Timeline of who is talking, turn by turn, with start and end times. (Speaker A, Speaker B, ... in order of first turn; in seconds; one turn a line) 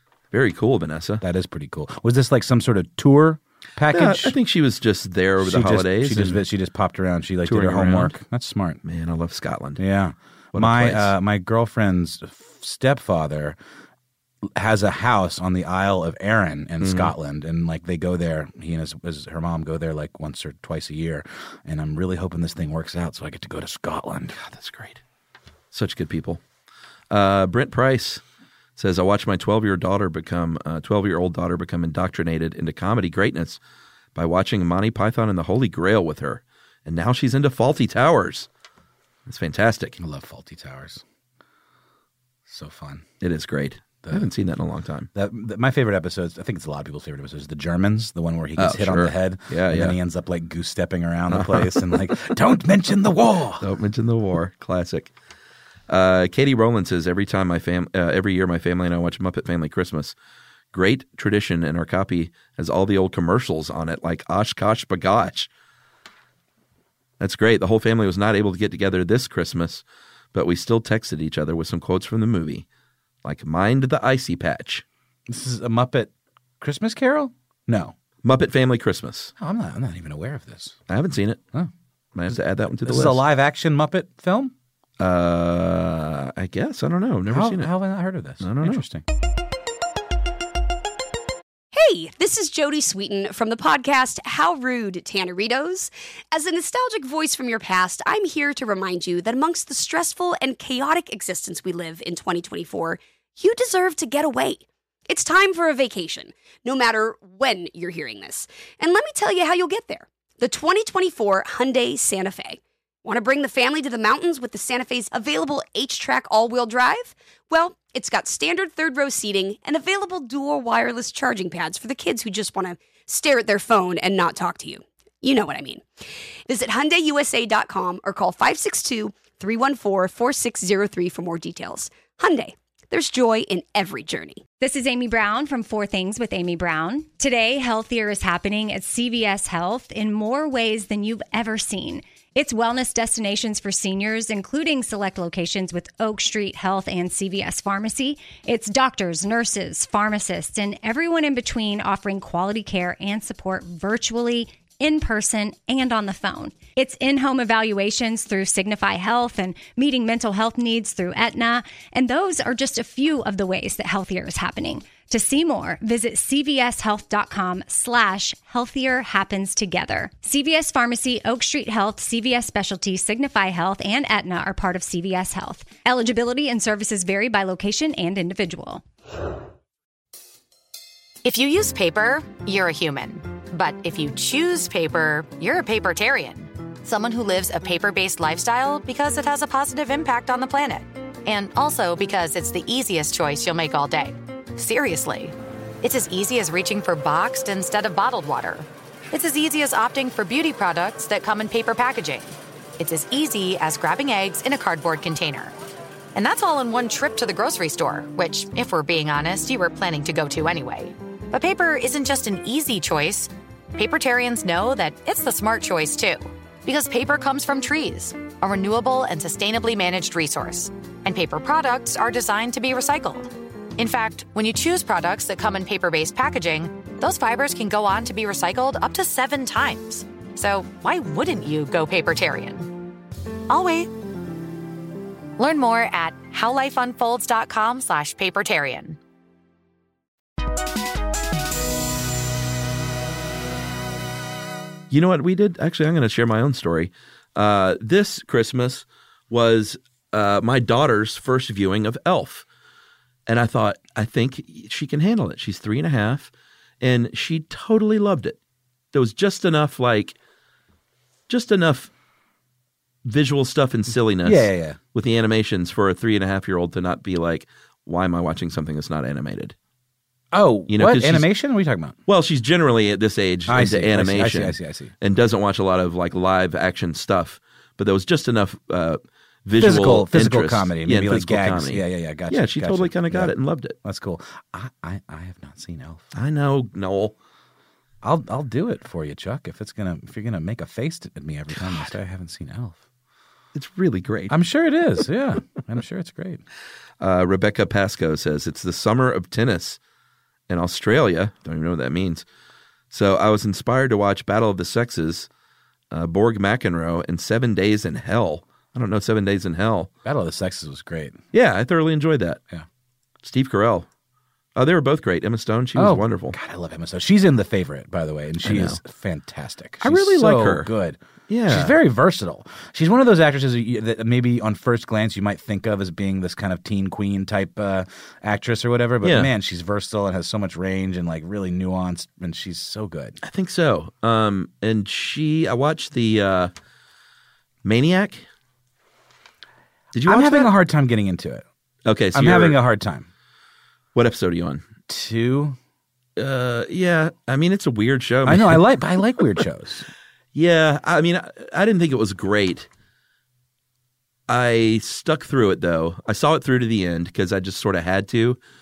Speaker A: 0.3-1.2
Speaker B: 1.2-4.4
Speaker A: 3.9-6.4
Speaker B: 5.4-8.8
Speaker A: 7.4-8.1
Speaker A: 8.8-9.8
Speaker B: 9.8-13.6
Speaker A: 10.5-11.1
Speaker B: 14.5-24.4
Speaker A: 16.8-17.1
Speaker A: 24.3-25.0
Speaker A: 25.7-26.4
Speaker A: 27.1-28.2
Speaker A: 28.8-33.6
Speaker A: 34.1-38.5
Speaker A: 39.3-40.0
Speaker B: 40.0-41.0
Speaker B: 42.5-43.0
Speaker A: 43.2-45.1
Speaker B: 45.1-53.7
Speaker A: 48.6-50.0
Speaker A: 51.3-52.0
Speaker A: 53.6-55.1
Speaker A: 55.9-60.1
Speaker A: 60.7-65.5
Speaker A: 67.2-69.8
Speaker A: 70.3-72.7
Speaker A: 73.2-74.8
Speaker B: 75.3-77.9
Speaker A: 78.2-79.3
Speaker B: 79.4-80.8
Speaker A: 80.9-81.4
Speaker A: 82.2-83.2
Speaker B: 82.8-84.5
Speaker A: 85.0-87.7
Speaker B: 87.3-89.0
Speaker A: 88.4-88.8
Speaker C: 91.7-125.9
Speaker C: 126.5-134.4
Speaker D: 134.6-178.8
Speaker E: 181.2-205.5
Speaker E: 206.2-232.7
Speaker E: 233.5-233.9
Speaker E: 235.4-239.0
Speaker A: 244.9-252.4
Speaker A: 253.3-258.4
Speaker A: 258.9-260.2
Speaker A: 261.3-261.9
Speaker A: 263.1-269.6
Speaker B: 264.2-264.8
Speaker B: 270.3-271.9
Speaker A: 270.7-271.3
Speaker A: 272.1-283.8
Speaker B: 273.5-274.9
Speaker B: 279.6-283.3
Speaker B: 283.8-286.0
Speaker A: 286.1-287.1
Speaker B: 288.0-292.8
Speaker A: 293.6-294.4
Speaker B: 294.3-296.4
Speaker A: 297.0-299.8
Speaker A: 300.5-302.2
Speaker A: 302.9-305.3
Speaker A: 305.9-309.9
Speaker B: 310.1-311.2
Speaker A: 311.3-312.4
Speaker A: 313.2-313.9
Speaker A: 314.6-316.4
Speaker B: 315.7-333.2
Speaker A: 318.4-318.8
Speaker A: 319.8-320.7
Speaker A: 321.3-321.7
Speaker A: 329.0-329.3
Speaker A: 333.2-336.5
Speaker A: 337.6-338.3
Speaker A: 339.9-340.5
Speaker B: 340.1-341.4
Speaker A: 341.9-342.6
Speaker B: 342.1-343.1
Speaker A: 343.9-344.6
Speaker B: 344.9-345.6
Speaker A: 346.2-348.7
Speaker B: 348.2-349.9
Speaker A: 350.3-352.7
Speaker A: 354.3-358.4